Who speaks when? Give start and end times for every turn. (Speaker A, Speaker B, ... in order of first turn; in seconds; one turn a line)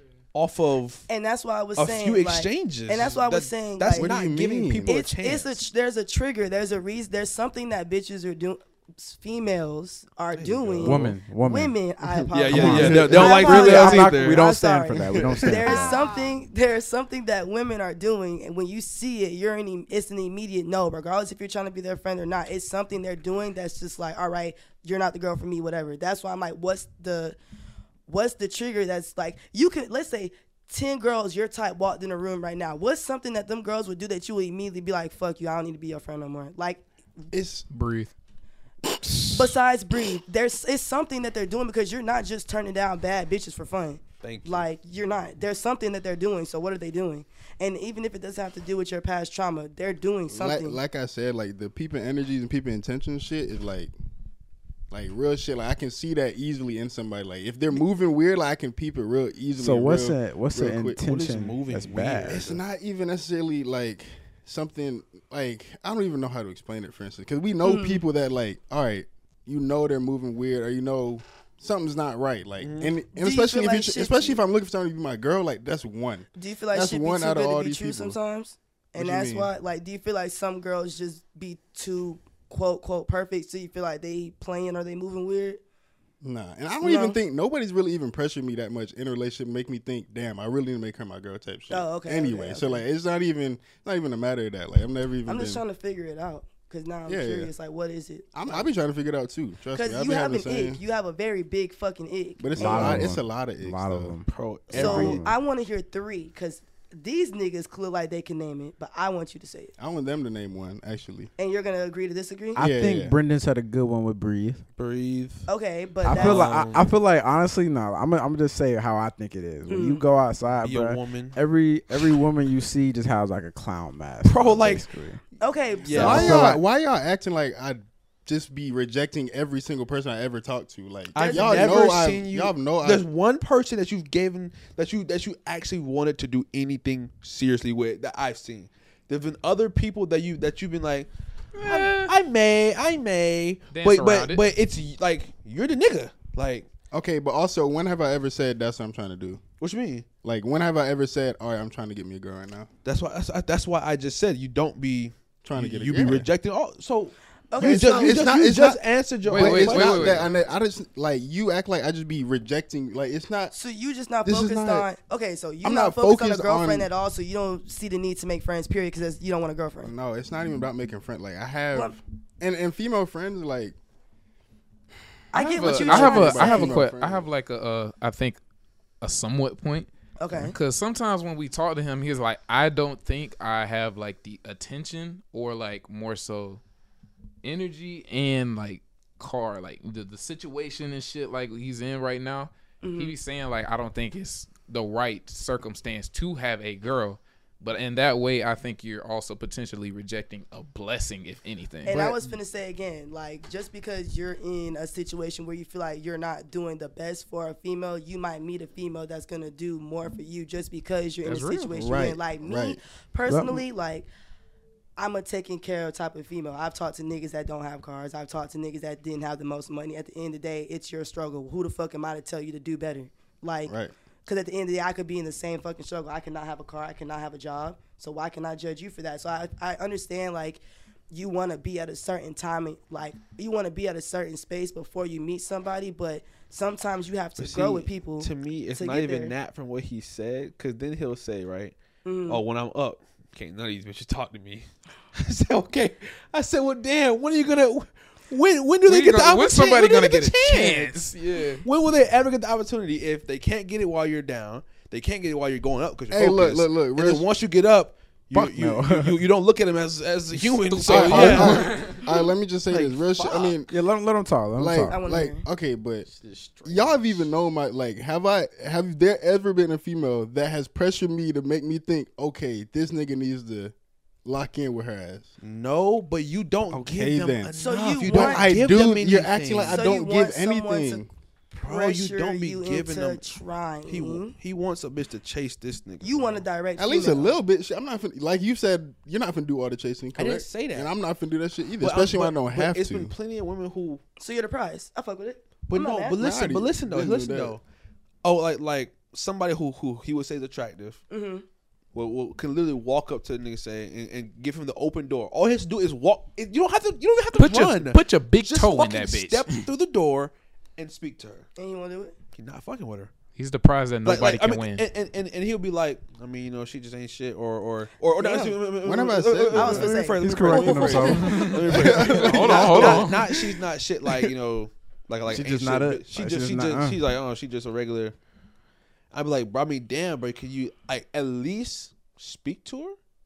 Speaker A: 0.3-1.1
Speaker B: 1.1-4.1
Speaker A: 1.7-5.6
Speaker C: 3.9-4.9
Speaker B: 4.8-27.4
Speaker A: 10.3-11.1
Speaker D: 10.8-11.7
Speaker A: 12.3-14.4
Speaker D: 12.5-16.1
Speaker C: 12.5-13.4
Speaker C: 15.2-15.5
Speaker B: 28.1-36.8
Speaker C: 37.3-37.7
Speaker E: 37.7-38.1
Speaker B: 39.3-50.8
Speaker A: 44.2-44.7
Speaker C: 50.3-53.9
Speaker C: 54.9-61.0
Speaker D: 59.6-62.5
Speaker A: 61.0-62.6
Speaker C: 62.3-78.2
Speaker B: 67.6-68.0
Speaker A: 72.6-73.0
Speaker B: 73.1-74.4
Speaker B: 76.3-85.6
Speaker C: 79.0-79.5
Speaker C: 86.2-95.6
Speaker B: 86.8-87.2
Speaker B: 91.7-92.8
Speaker B: 95.2-98.6
Speaker C: 97.0-97.5
Speaker C: 98.3-100.8
Speaker B: 99.7-103.0
Speaker C: 102.4-104.2
Speaker D: 102.5-105.4
Speaker A: 104.3-105.2
Speaker B: 104.7-109.7
Speaker C: 109.8-111.3
Speaker B: 111.4-112.6
Speaker D: 112.5-114.6
Speaker C: 112.5-113.2
Speaker A: 114.8-115.5
Speaker B: 115.5-116.5
Speaker D: 116.0-125.2
Speaker A: 116.1-117.0
Speaker B: 119.7-120.0
Speaker A: 120.6-121.4
Speaker A: 124.2-124.8
Speaker B: 125.4-126.4
Speaker A: 125.8-126.3
Speaker D: 125.9-126.6
Speaker C: 126.0-133.1
Speaker B: 131.1-132.0
Speaker A: 131.1-141.1
Speaker E: 141.6-142.1
Speaker A: 141.6-146.7
Speaker E: 143.7-144.4
Speaker C: 146.9-149.4
Speaker A: 149.6-150.1
Speaker C: 150.2-152.7
Speaker A: 152.8-160.3
Speaker C: 155.4-156.3
Speaker B: 157.5-158.3
Speaker C: 157.6-163.5
Speaker E: 159.3-160.3
Speaker B: 163.5-169.9
Speaker C: 164.2-164.9
Speaker C: 165.6-166.9
Speaker C: 169.8-173.8
Speaker B: 171.7-172.0
Speaker B: 175.3-176.8
Speaker E: 175.3-178.4
Speaker C: 175.5-177.3
Speaker E: 179.0-186.6
Speaker B: 180.2-180.6
Speaker E: 187.4-202.0
Speaker B: 192.8-193.2
Speaker B: 201.8-214.1
Speaker C: 201.8-202.3
Speaker E: 211.2-211.9
Speaker C: 211.8-212.8
Speaker D: 213.3-213.6
Speaker B: 215.0-223.7
Speaker C: 223.7-223.9
Speaker B: 224.2-239.3
Speaker A: 237.4-251.1
Speaker B: 242.0-242.4
Speaker E: 248.8-251.6
Speaker A: 251.6-261.9
Speaker C: 256.1-257.3
Speaker D: 258.3-259.2
Speaker E: 260.6-262.2
Speaker C: 260.9-263.8
Speaker D: 261.1-261.4
Speaker A: 262.7-263.6
Speaker D: 263.7-265.0
Speaker C: 264.6-266.1
Speaker B: 264.9-265.4
Speaker A: 266.1-267.3
Speaker C: 266.6-273.7
Speaker C: 274.2-275.3
Speaker A: 275.4-279.8
Speaker C: 276.6-281.1
Speaker B: 277.6-278.5
Speaker B: 279.6-284.4
Speaker A: 281.6-286.4
Speaker B: 286.0-287.4
Speaker C: 286.8-293.1
Speaker A: 290.1-290.9
Speaker A: 291.8-294.0
Speaker B: 294.2-296.3
Speaker A: 295.7-297.6
Speaker C: 296.2-297.6
Speaker A: 298.2-301.0
Speaker B: 301.1-301.4
Speaker A: 301.9-311.4
Speaker E: 307.3-309.6
Speaker B: 311.6-312.1
Speaker A: 312.3-313.1
Speaker E: 313.3-314.9
Speaker A: 314.0-328.1
Speaker B: 318.2-318.6
Speaker C: 318.8-320.0
Speaker B: 319.5-321.1
Speaker D: 319.9-321.5
Speaker C: 320.5-323.5
Speaker E: 321.1-323.3
Speaker D: 325.2-327.0
Speaker A: 329.1-332.9